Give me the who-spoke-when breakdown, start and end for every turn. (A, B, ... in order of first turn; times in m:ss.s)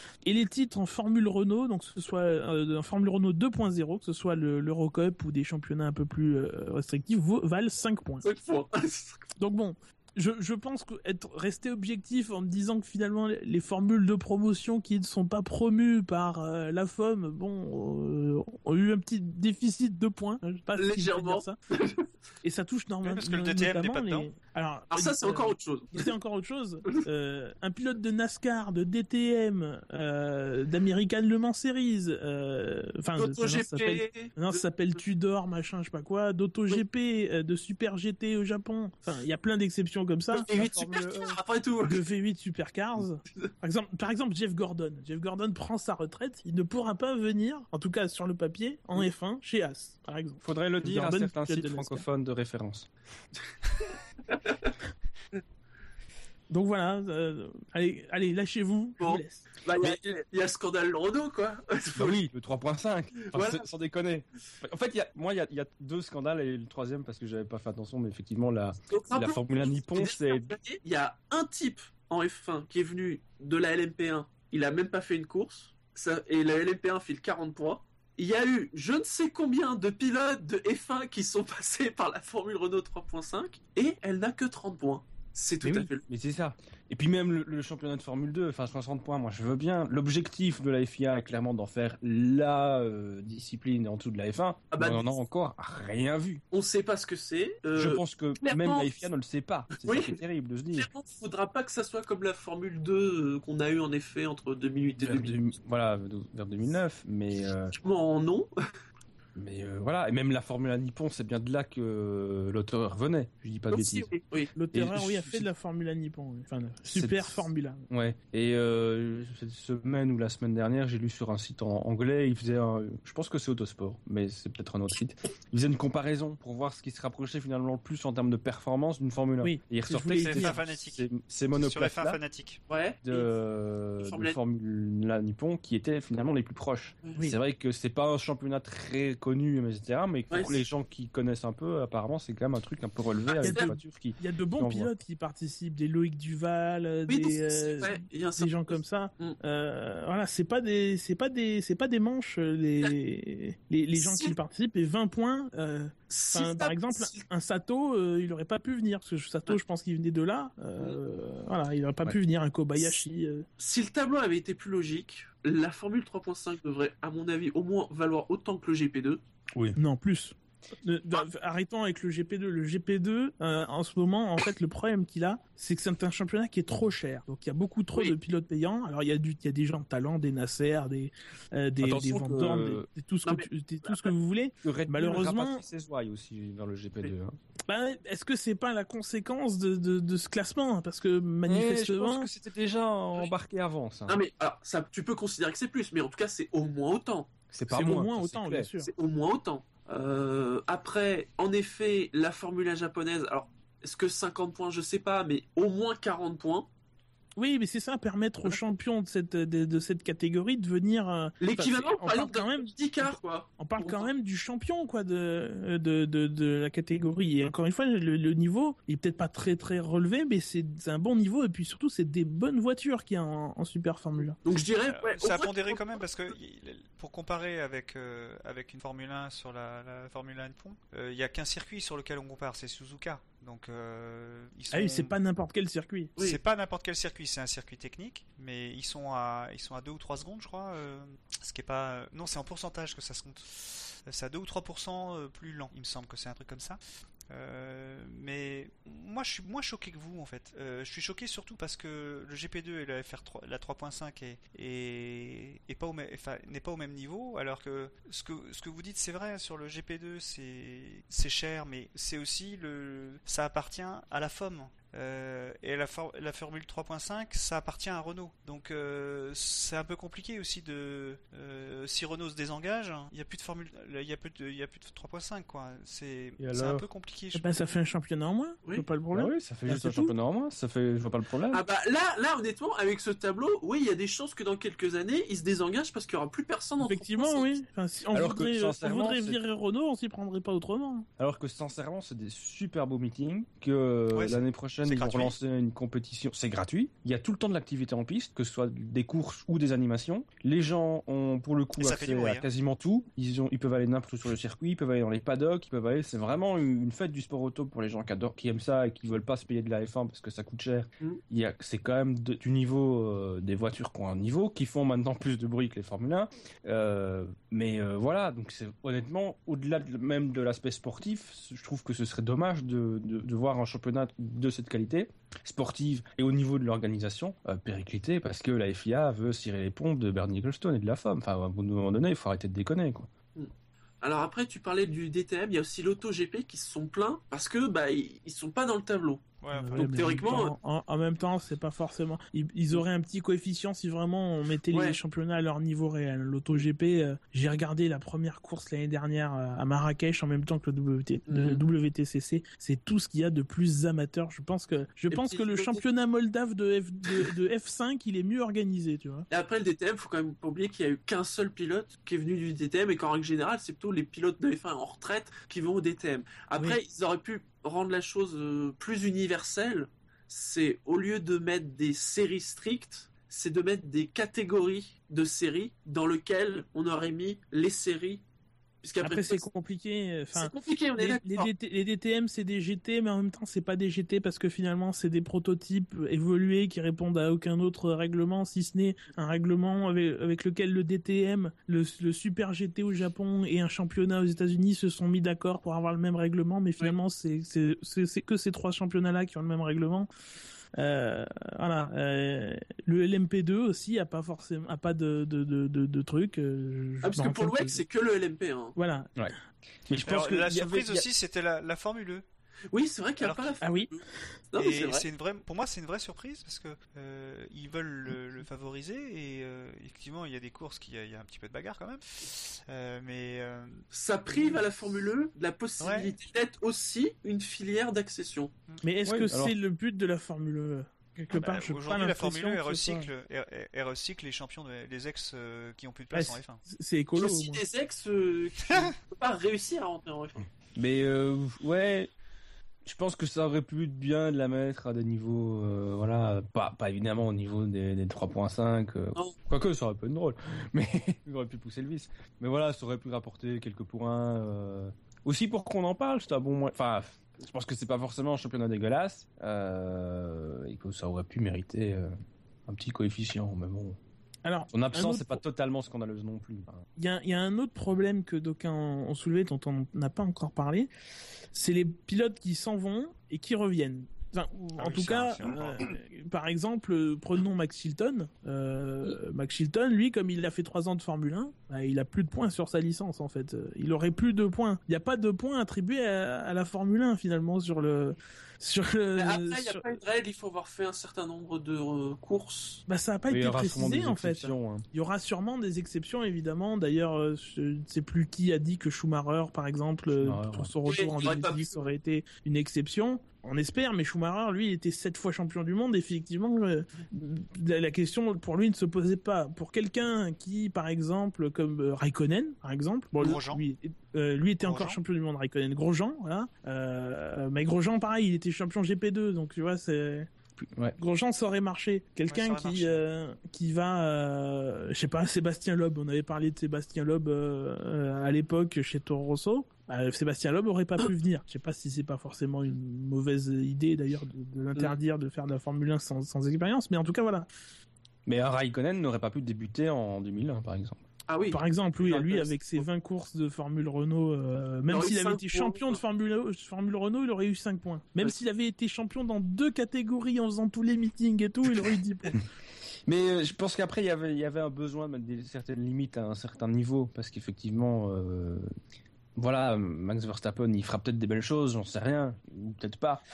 0:00.2-0:08.3 A
0:08.2-0:09.2 B
0:09.4-0:21.6 A
0:20.8-0:22.1 B
0:22.4-0:40.5 A
0:23.0-0:24.3 C
0:24.9-0:26.1 B
0:33.2-0:34.6 B
0:40.3-0:42.0 B
0:40.5-0:41.4 D
0:41.8-0:52.1 A
0:50.4-0:52.9 D
0:53.8-0:54.7 B
0:56.5-0:59.5 A
0:59.0-1:02.2 B
1:01.9-1:10.6 D
1:03.3-1:03.7 B
1:08.9-1:26.0 B
1:25.6-1:36.4 D
1:34.7-1:35.1 B
1:36.5-1:39.0 B
1:37.8-1:40.9 D
1:39.8-1:40.2 B
1:40.8-1:45.3 B
1:45.0-1:47.8 D
1:47.8-1:48.5 B
1:49.4-1:54.1 D
1:53.7-1:54.5 B
1:54.6-1:57.8 A
1:54.7-1:55.5 D
1:56.8-2:12.2 D
2:09.4-2:10.6 A
2:10.1-2:12.6 C
2:12.7-2:13.3 B
2:13.0-2:24.9 D
2:14.0-2:14.4 B
2:20.3-2:20.6 B
2:23.3-2:23.7 B
2:23.4-2:43.5 A
2:27.1-2:29.4 B
2:34.0-2:34.4 B
2:36.1-2:37.2 B
2:43.6-2:49.2 B
2:49.5-2:49.8 D
2:49.8-3:05.6 A
3:01.8-3:02.9 D
3:03.2-3:04.1 B
3:04.6-3:07.4 D
3:07.7-3:12.3 A
3:11.5-3:14.2 D
3:14.1-3:17.3 B
3:17.5-3:18.7 D
3:17.7-3:18.9 A
3:18.8-3:26.7 B
3:27.4-3:44.4 A
3:31.4-3:34.1 B
3:44.4-3:45.8 B
3:44.8-3:55.1 C
3:54.7-3:56.1 A
3:56.2-4:37.6 C
4:36.4-4:36.9 D
4:37.3-4:40.1 A
4:39.1-4:41.6 D
4:41.5-4:47.5 B
4:46.8-4:51.1 A
4:48.1-4:49.4 D
4:51.2-5:33.1 D
4:54.1-4:55.3 C
5:01.8-5:02.5 C
5:33.4-5:39.2 B
5:39.4-5:40.4 C
5:39.5-5:59.3 A
5:39.8-5:40.5 B
5:44.7-5:45.0 B
5:51.3-5:51.6 B
5:55.1-5:55.8 B
5:59.3-6:18.2 B
6:18.8-6:19.4 B
6:19.0-6:40.1 A
6:20.4-6:21.5 B
6:40.7-6:47.8 A
6:47.0-6:48.8 B
6:48.8-6:49.3 A
6:49.9-6:51.1 D
6:50.0-6:52.2 C
6:52.7-6:55.1 B
6:53.2-6:53.6 C
6:53.6-6:53.9 A
6:54.6-7:03.8 C
7:03.9-7:08.5 B
7:05.8-7:06.1 C
7:08.8-7:13.1 A
7:09.0-7:09.5 D
7:11.3-7:16.6 C
7:16.1-7:17.6 A
7:17.2-7:20.5 B
7:20.8-7:22.1 D
7:22.8-7:42.1 D
7:42.7-7:44.0 D
7:44.4-7:45.4 A
7:44.7-7:46.8 D
7:47.0-7:50.9 A
7:51.5-8:09.8 A
7:54.7-7:55.9 C
8:09.2-8:12.8 B
8:12.9-8:40.3 A
8:13.3-8:14.8 D
8:20.1-8:20.7 D
8:20.9-8:21.9 B
8:33.2-8:33.6 C
8:34.6-8:35.0 C
8:40.6-8:41.0 D
8:41.0-8:57.5 A
8:42.3-8:43.0 C
8:58.3-9:01.0 D
9:01.3-9:01.6 B
9:01.5-9:12.4 A
9:02.0-9:02.8 D
9:04.9-9:06.0 B
9:13.1-9:18.7 D
9:19.4-9:23.2 D